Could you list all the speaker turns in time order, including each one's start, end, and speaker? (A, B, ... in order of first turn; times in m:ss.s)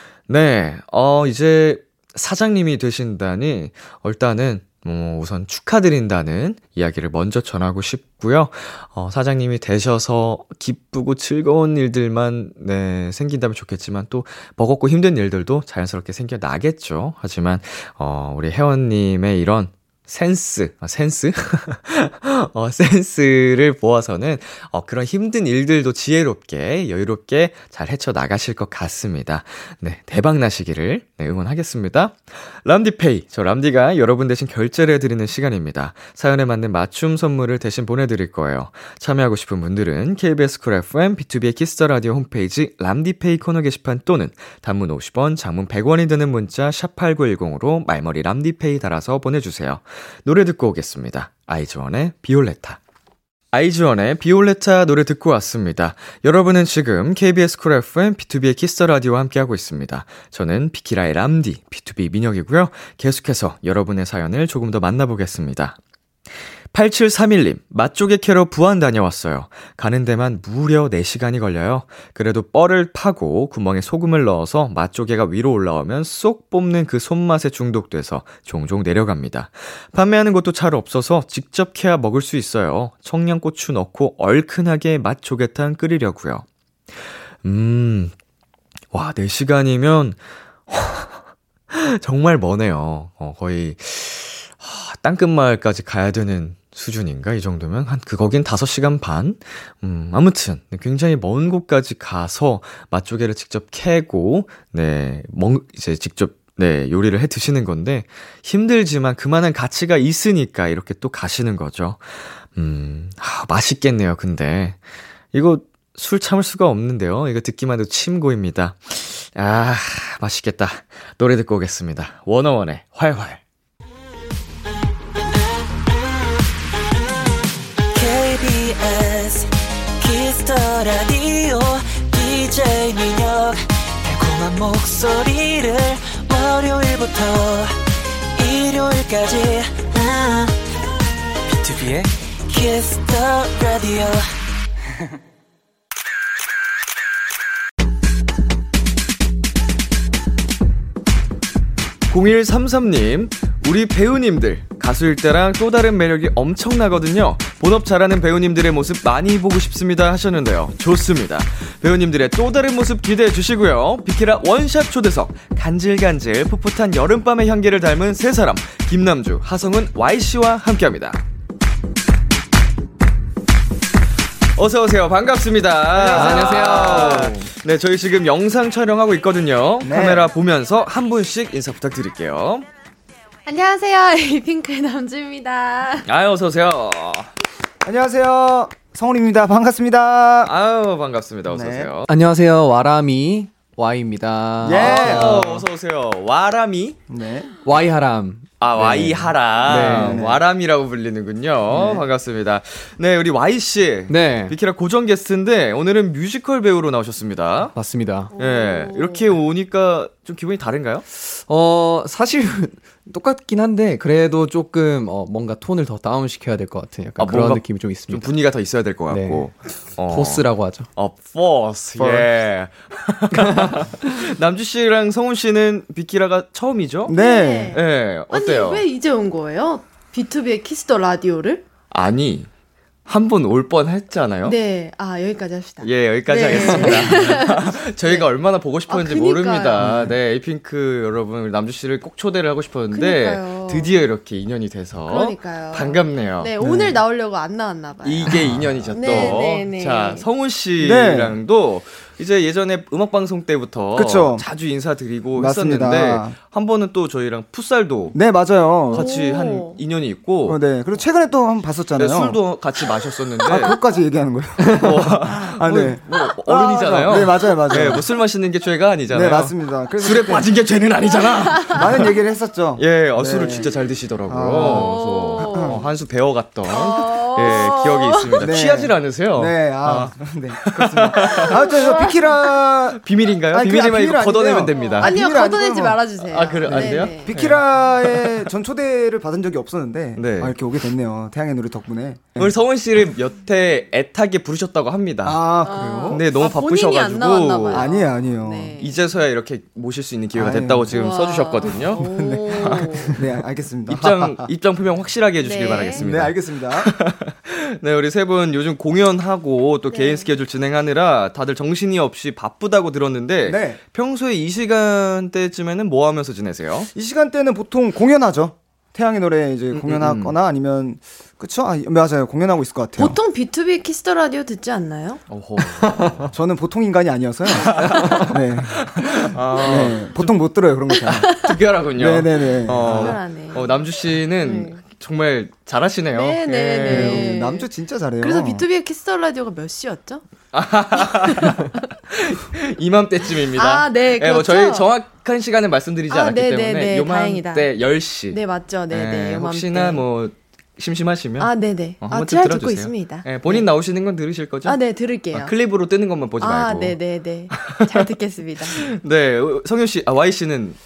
0:00.3-0:52.8 A
0:53.5-1:05.8 A
1:06.7-1:26.5 A
1:27.4-1:28.1 A
1:28.9-1:31.2 A
1:31.7-1:54.8 A
1:55.3-2:03.4 A
2:07.9-2:17.8 B
2:18.4-2:20.6 B
2:21.5-2:24.3 B
2:32.1-2:51.2 A
2:54.6-3:02.7 A
2:56.0-2:57.2 C
2:56.1-2:57.5 D
2:59.8-3:00.3 C
3:03.5-3:06.1 E
3:06.1-3:07.3 A
3:07.8-3:10.5 C
3:10.4-3:12.1 A
3:11.5-3:11.9 C
3:12.1-3:15.4 D
3:14.6-3:15.6 C
3:14.7-3:17.0 A
3:17.1-3:17.5 C
3:17.6-3:20.2 D
3:18.6-3:27.7 A
3:19.7-3:20.4 C
3:21.7-3:22.0 C
3:24.1-3:24.6 D
3:27.7-3:28.3 D
3:28.4-3:29.2 E
3:28.4-3:31.0 A
3:31.2-3:38.3 D
3:37.2-3:47.2 A
3:39.1-3:39.6 D
3:40.1-3:40.9 D
3:42.0-3:42.3 C
3:43.4-3:43.8 D
3:47.1-3:47.8 C
3:47.2-3:51.6 E
3:47.7-3:48.8 A
3:51.9-3:52.5 A
3:53.1-3:54.6 A
3:54.4-3:58.3 E
3:55.8-4:06.5 A
3:58.9-3:59.8 E
4:02.9-4:03.9 E
4:05.1-4:08.4 E
4:06.6-4:07.0 C
4:08.0-4:18.2 A
4:08.9-4:10.3 E
4:09.0-4:09.4 C
4:10.8-4:11.4 C
4:13.9-4:14.4 C
4:15.3-4:16.4 C
4:18.1-4:19.1 C
4:18.9-4:20.6 A
4:18.9-4:19.8 E
4:20.4-4:22.4 C
4:22.0-4:23.8 A
4:23.5-4:28.1 C
4:24.6-4:32.1 A
4:29.1-4:30.5 C
4:31.7-4:33.7 C
4:32.8-4:42.1 A
4:34.3-4:35.8 C
4:34.6-4:35.8 E
4:36.7-4:38.5 E
4:38.4-4:46.0 C
4:41.3-4:42.3 E
4:42.9-4:45.2 A
4:44.8-4:47.3 E
4:46.3-4:48.4 A
4:46.6-4:52.5 C
4:50.2-4:50.6 A
4:52.4-4:55.4 A
4:55.2-4:56.2 C
4:55.6-4:59.0 E
4:56.1-4:57.9 A
4:57.7-4:58.8 C
4:58.8-5:03.2 A
5:00.4-5:01.1 C
5:00.9-5:03.2 E
5:01.7-5:04.5 C
5:03.9-5:16.9 A
5:05.4-5:06.1 E
5:06.0-5:06.9 C
5:09.9-5:10.3 E
5:13.4-5:13.8 C
5:16.9-5:23.2 C
5:19.7-5:20.4 A
5:23.0-5:25.2 E
5:25.3-5:26.3 A
5:26.3-5:31.4 C
5:27.5-5:30.3 A
5:31.1-5:31.5 E
5:31.4-5:37.3 A
5:32.0-5:33.2 C
5:32.8-5:34.8 E
5:36.1-5:37.7 E
5:36.8-5:38.6 C
5:38.2-5:40.2 E
5:40.5-5:54.8 A
5:41.2-5:41.7 E
5:43.5-5:44.9 E
5:46.1-5:47.7 E
5:48.3-5:50.0 E
5:51.4-5:53.7 E
5:54.6-5:55.5 E
5:55.3-5:57.0 A
5:56.4-5:58.8 E
5:57.6-5:57.9 A
5:58.8-6:00.8 A